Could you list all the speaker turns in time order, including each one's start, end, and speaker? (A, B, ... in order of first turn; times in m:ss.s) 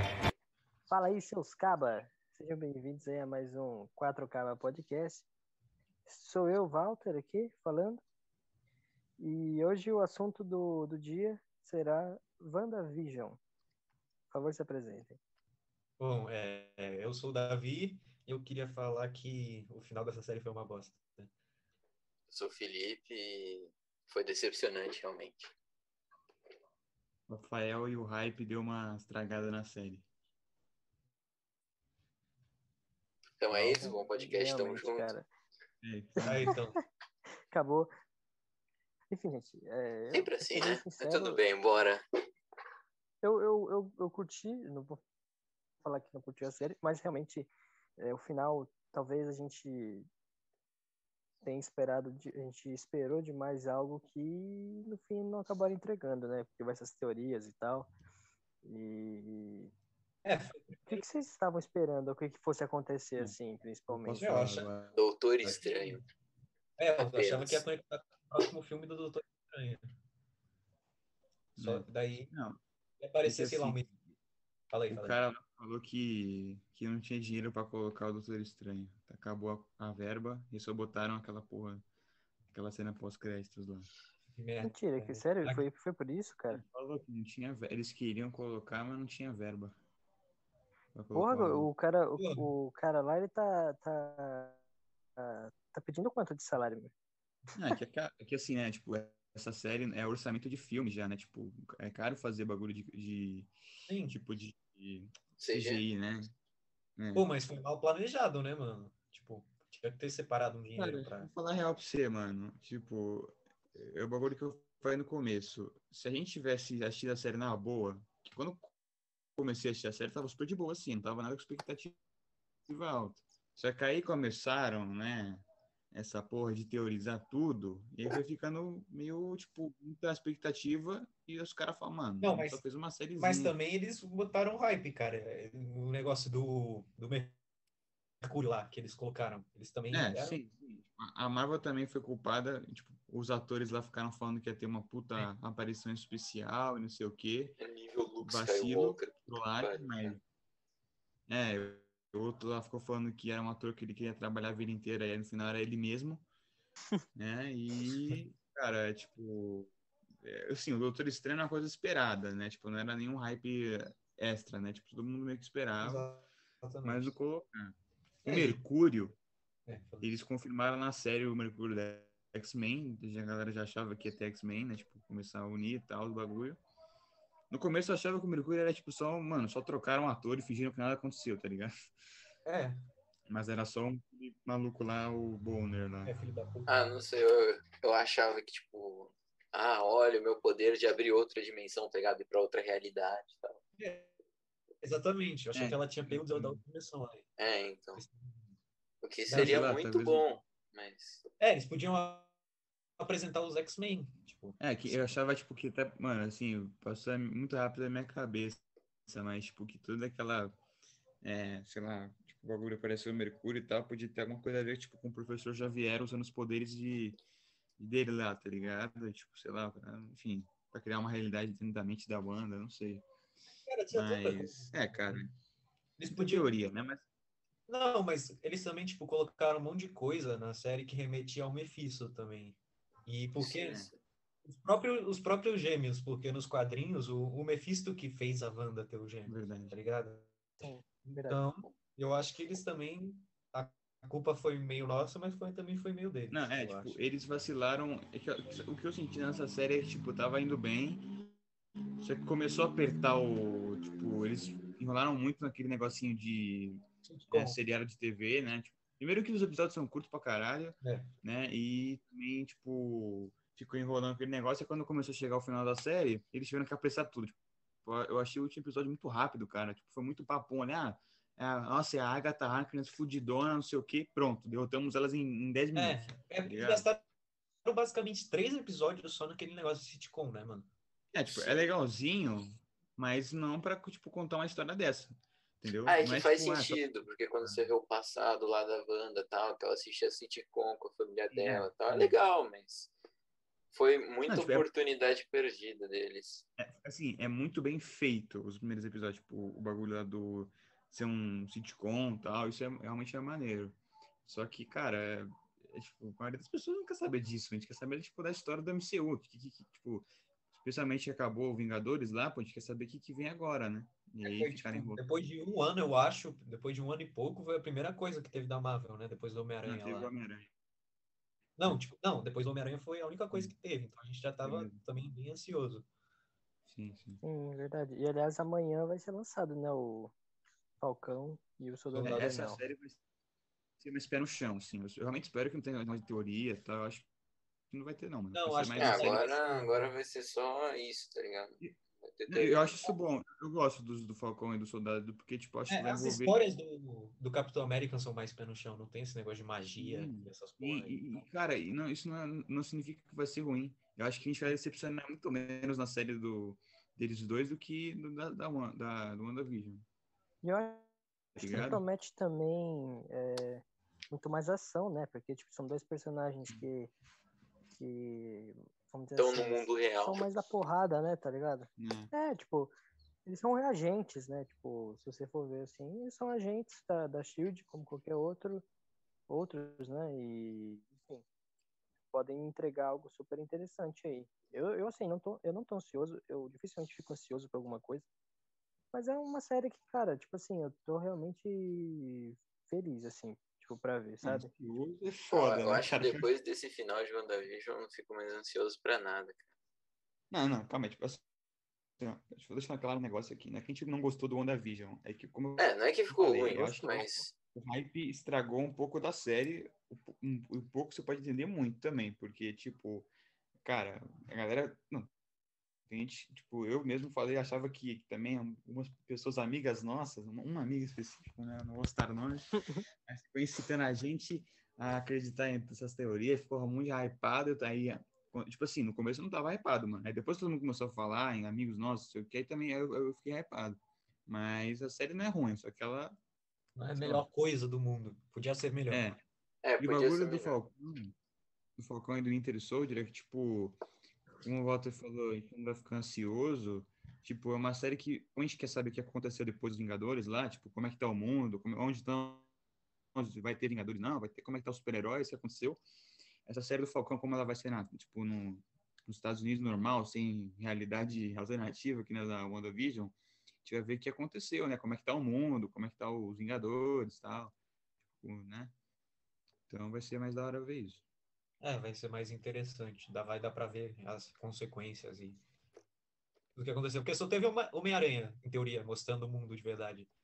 0:00.9-0:05.3 A
0:06.0-0:08.0 A
0:09.2-0:13.4 A
0:14.3-0:15.2 A
0:16.0-0:21.3 B
0:22.3-0:25.5 C
0:27.3-0:30.0 D
0:33.4-0:35.1 C
0:33.5-0:33.8 D
0:33.8-0:35.2 A
0:35.8-0:36.6 D
0:36.2-0:36.5 A
0:36.2-0:36.8 B
0:37.5-0:37.9 A
0:39.1-0:41.4 A
0:40.1-0:42.0 C
0:43.2-0:45.0 A
0:45.8-0:50.1 A
0:51.4-0:57.9 A
0:58.6-0:59.7 A
1:00.2-1:01.0 B
1:00.9-1:04.3 A
1:03.9-1:05.6 D
1:04.2-1:04.7 B
1:04.9-1:06.0 C
1:05.5-1:05.9 B
1:06.8-1:09.8 B
1:07.0-1:07.6 C
1:11.6-1:12.3 B
1:11.6-1:12.6 D
1:13.0-1:13.9 B
1:13.2-1:13.9 D
1:14.7-1:15.2 B
1:14.9-1:21.8 D
1:22.5-1:23.9 D
1:24.4-1:25.7 B
1:24.6-1:26.6 A
1:26.5-1:29.7 D
1:30.9-1:31.7 D
1:31.1-1:34.6 A
1:32.2-1:32.5 B
1:35.2-1:36.9 A
1:37.6-1:43.5 D
1:43.9-1:44.2 B
1:44.1-1:46.3 D
1:45.4-1:45.8 C
1:47.0-1:47.2 D
1:47.1-1:51.3 B
1:50.8-1:58.7 D
1:59.4-2:02.0 D
2:02.7-2:13.5 D
2:12.2-2:12.6 B
2:13.2-2:17.4 B
2:18.2-2:20.4 B
2:19.9-2:27.6 D
2:27.6-2:30.2 C
2:28.2-2:30.2 D
2:31.3-2:36.2 D
2:37.1-2:46.1 D
2:45.8-2:47.1 B
2:46.8-2:47.7 D
2:48.2-2:48.6 B
2:48.2-2:49.1 D
2:49.7-2:50.2 B
2:50.0-2:56.6 D
2:57.5-3:01.7 D
3:02.4-3:02.8 B
3:03.3-3:06.1 D
3:06.0-3:06.9 B
3:06.7-3:13.6 C
3:13.8-3:14.1 B
3:14.8-3:17.3 B
3:15.5-3:16.6 D
3:17.4-3:18.0 C
3:17.9-3:18.5 B
3:19.0-3:21.2 C
3:19.3-3:19.6 B
3:19.3-3:20.4 D
3:21.4-3:22.3 B
3:23.0-3:24.6 B
3:24.6-3:30.5 D
3:31.2-3:37.2 D
3:37.8-3:43.0 D
3:43.6-3:45.3 B
3:43.9-3:45.3 D
3:46.0-3:46.5 B
3:46.1-3:47.0 D
3:47.7-3:53.9 B
3:53.4-3:53.9 C
3:53.5-3:53.9 D
3:54.4-4:00.6 B
3:59.3-3:59.7 D
4:00.6-4:01.4 A
4:01.2-4:07.0 B
4:06.3-4:11.3 D
4:12.0-4:36.8 D
4:17.0-4:17.6 B
4:20.8-4:21.1 B
4:35.7-4:37.0 B
4:37.6-4:40.7 B
4:41.1-4:46.8 D
4:45.8-4:52.9 C
4:47.4-4:47.7 D
4:51.3-4:52.2 D
4:53.7-4:56.4 C
4:54.3-4:54.7 D
4:56.6-5:15.0 D
5:14.2-5:20.1 B
5:19.6-5:20.5 D
5:21.6-5:25.9 B
5:24.4-5:24.8 D
5:26.7-5:27.2 D
5:27.2-5:30.1 A
5:30.8-5:32.6 A
5:31.9-5:32.4 B
5:32.0-5:33.0 D
5:33.8-5:37.1 D
5:37.7-5:39.2 D
5:38.3-5:39.9 B
5:38.8-5:42.9 C
5:42.3-5:46.4 D
5:45.7-5:51.2 B
5:49.8-5:59.8 D
6:00.4-6:00.8 A
6:01.4-6:06.9 A
6:01.4-6:01.8 D
6:07.8-6:12.7 A
6:09.2-6:10.2 C
6:11.8-6:12.1 D
6:13.2-6:18.6 A
6:19.3-6:21.2 A
6:22.1-6:28.0 A
6:28.9-6:34.5 A
6:34.2-6:36.3 D
6:35.3-6:39.4 C
6:40.3-6:41.2 D
6:42.0-6:53.1 D
6:45.6-6:47.3 C
6:53.6-6:55.1 D
6:55.9-7:16.2 D
7:16.8-7:19.1 B
7:17.0-7:17.2 D
7:18.9-7:19.2 D
7:19.6-7:20.5 C
7:19.8-7:21.1 D
7:21.8-7:23.8 D
7:24.4-7:32.4 D
7:33.1-7:35.8 D
7:36.4-7:47.5 D
7:48.2-7:48.7 D
7:49.7-7:51.0 D
7:51.6-7:55.4 B
7:56.6-8:00.1 B